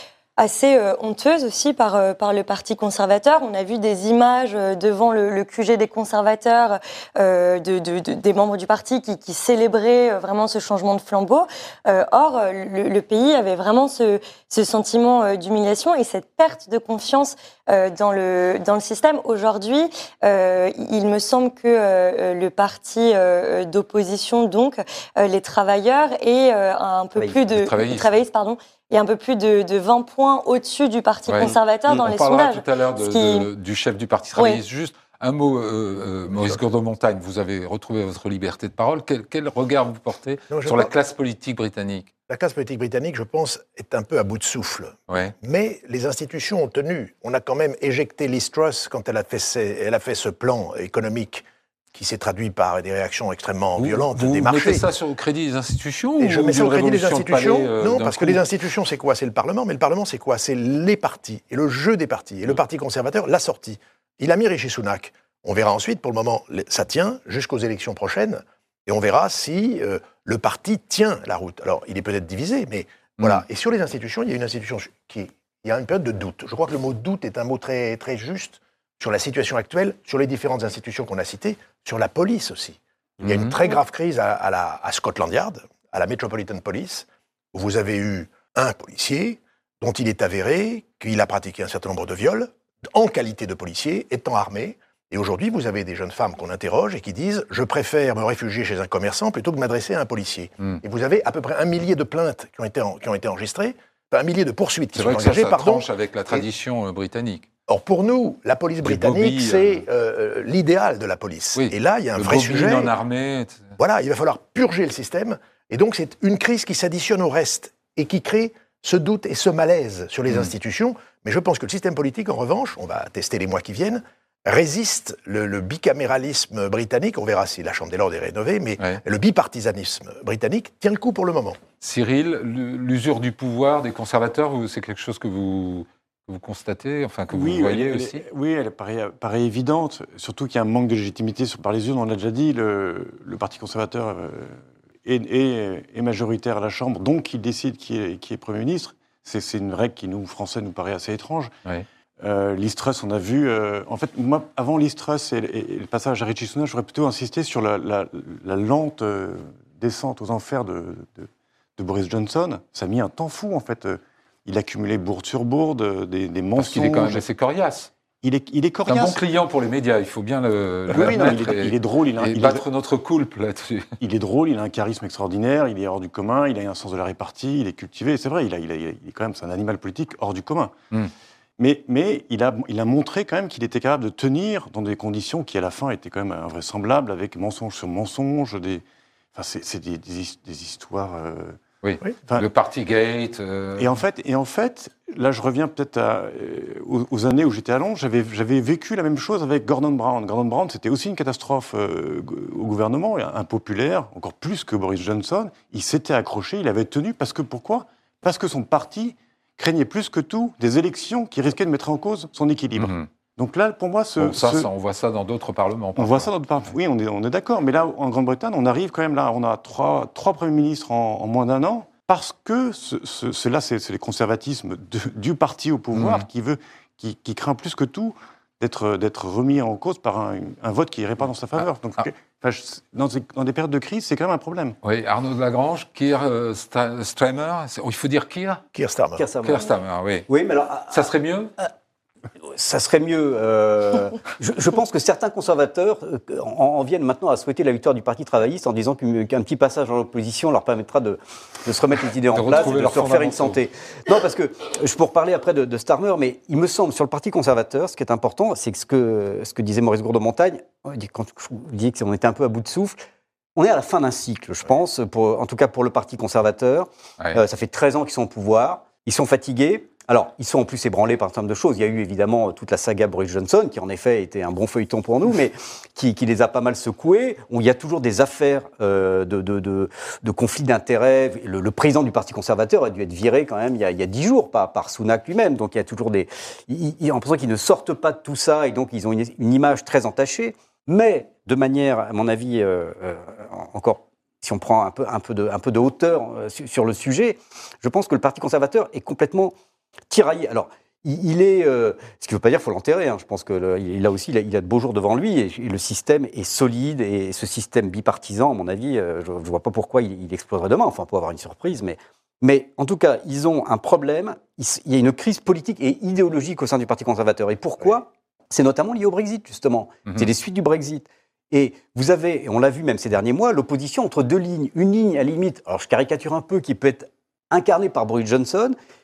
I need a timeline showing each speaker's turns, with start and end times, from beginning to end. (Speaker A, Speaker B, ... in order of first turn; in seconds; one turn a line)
Speaker A: 0.4-33.5
Speaker B: 27.3-28.1
Speaker B: 31.3-42.1
Speaker C: 40.5-40.9
Speaker C: 42.3-54.9
Speaker B: 45.1-45.4
Speaker B: 53.8-58.4
Speaker C: 56.2-106.5
Speaker B: 83.2-83.5
Speaker B: 104.9-107.5
Speaker C: 107.7-112.9
Speaker B: 108.8-109.8
Speaker B: 111.6-113.8
Speaker C: 113.8-131.6
Speaker B: 131.8-138.2
Speaker D: 137.3-151.5
Speaker D: 152.2-167.2
Speaker B: 166.6-167.9
Speaker D: 168.2-169.2
Speaker B: 168.9-173.9
Speaker D: 170.9-172.7
Speaker D: 174.0-180.7
Speaker D: 181.6-188.8
Speaker D: 189.3-191.6
Speaker B: 191.8-194.0
Speaker D: 193.8-214.7
Speaker B: 212.8-213.1
Speaker B: 214.2-216.3
Speaker D: 216.0-234.8
Speaker B: 225.9-226.3
Speaker B: 234.8-238.6
Speaker C: 238.7-239.2
Speaker E: 239.2-239.7
Speaker B: 239.4-240.3
Speaker E: 240.3-241.1
Speaker B: 240.9-241.5
Speaker E: 242.4-263.0
Speaker B: 252.3-253.6
Speaker E: 263.6-299.5
Speaker E: 300.1-328.8